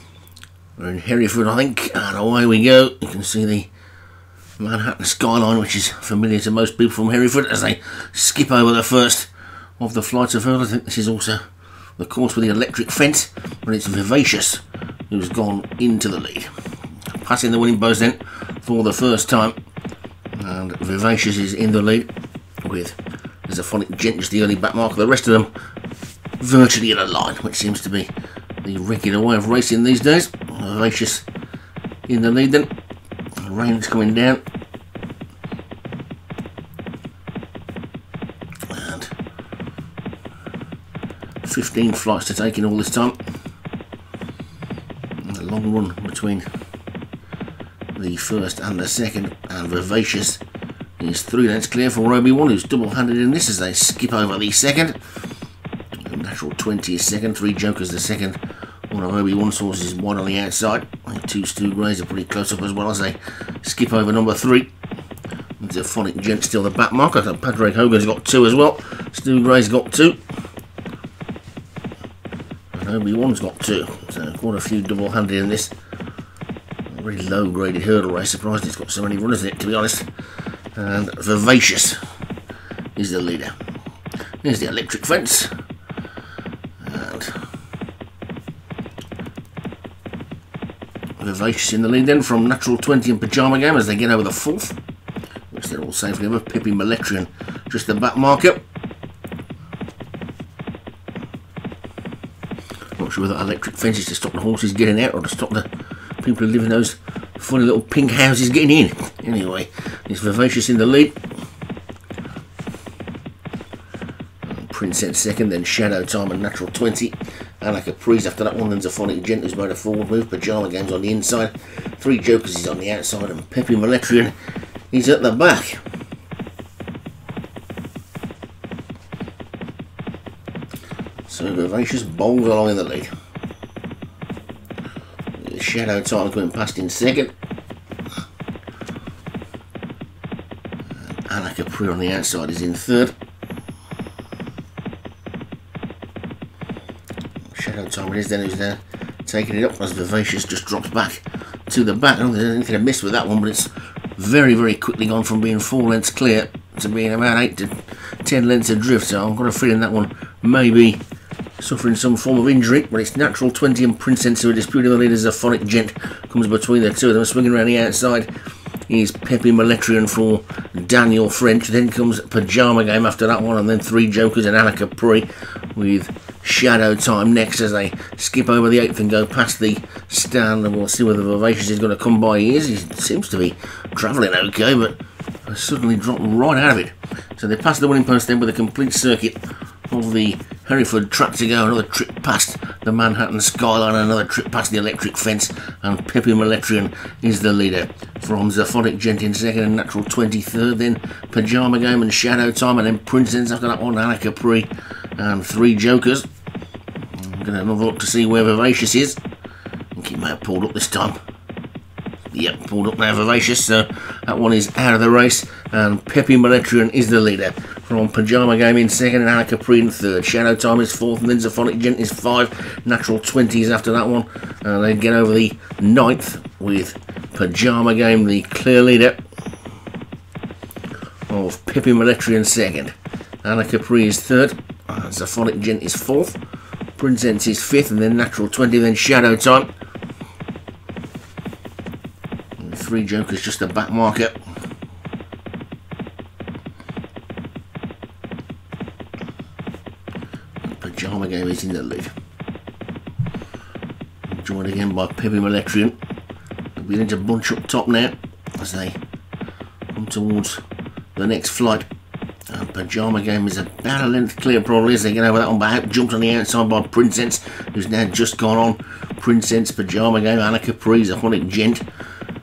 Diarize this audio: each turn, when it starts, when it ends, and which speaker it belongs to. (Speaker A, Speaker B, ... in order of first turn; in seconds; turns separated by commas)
Speaker A: 0.8-3.7, Speaker A: 4.6-11.4, Speaker A: 12.0-16.5, Speaker A: 17.1-19.5, Speaker A: 20.3-22.1, Speaker A: 22.6-25.5, Speaker A: 26.4-28.1, Speaker A: 28.6-31.2, Speaker A: 32.1-32.7, Speaker A: 33.4-34.4, Speaker A: 38.7-39.1, Speaker A: 41.4-43.2, Speaker A: 45.2-46.4, Speaker A: 47.9-50.4, Speaker A: 51.0-55.0, Speaker A: 56.0-58.4, Speaker A: 58.9-64.7, Speaker A: 65.6-70.2, Speaker A: 72.7-75.7, Speaker A: 76.9-80.1, Speaker A: 80.8-82.0, Speaker A: 83.0-83.5, Speaker A: 84.4-85.5, Speaker A: 86.8-87.4, Speaker A: 91.2-94.8, Speaker A: 95.5-98.6, Speaker A: 103.0-105.7, Speaker A: 106.2-111.2, Speaker A: 114.4-124.3, Speaker A: 124.9-125.8, Speaker A: 131.3-133.1, Speaker A: 135.4-137.3, Speaker A: 141.0-143.1, Speaker A: 147.5-161.0, Speaker A: 161.6-168.3, Speaker A: 168.9-189.4, Speaker A: 189.9-206.3, Speaker A: 207.1-209.2, Speaker A: 209.9-211.2, Speaker A: 212.3-229.2, Speaker A: 231.3-236.4, Speaker A: 237.0-239.7, Speaker A: 242.6-244.3, Speaker A: 250.6-252.1, Speaker A: 254.3-255.9, Speaker A: 256.8-259.0, Speaker A: 259.9-260.6, Speaker A: 261.1-261.9, Speaker A: 262.5-271.8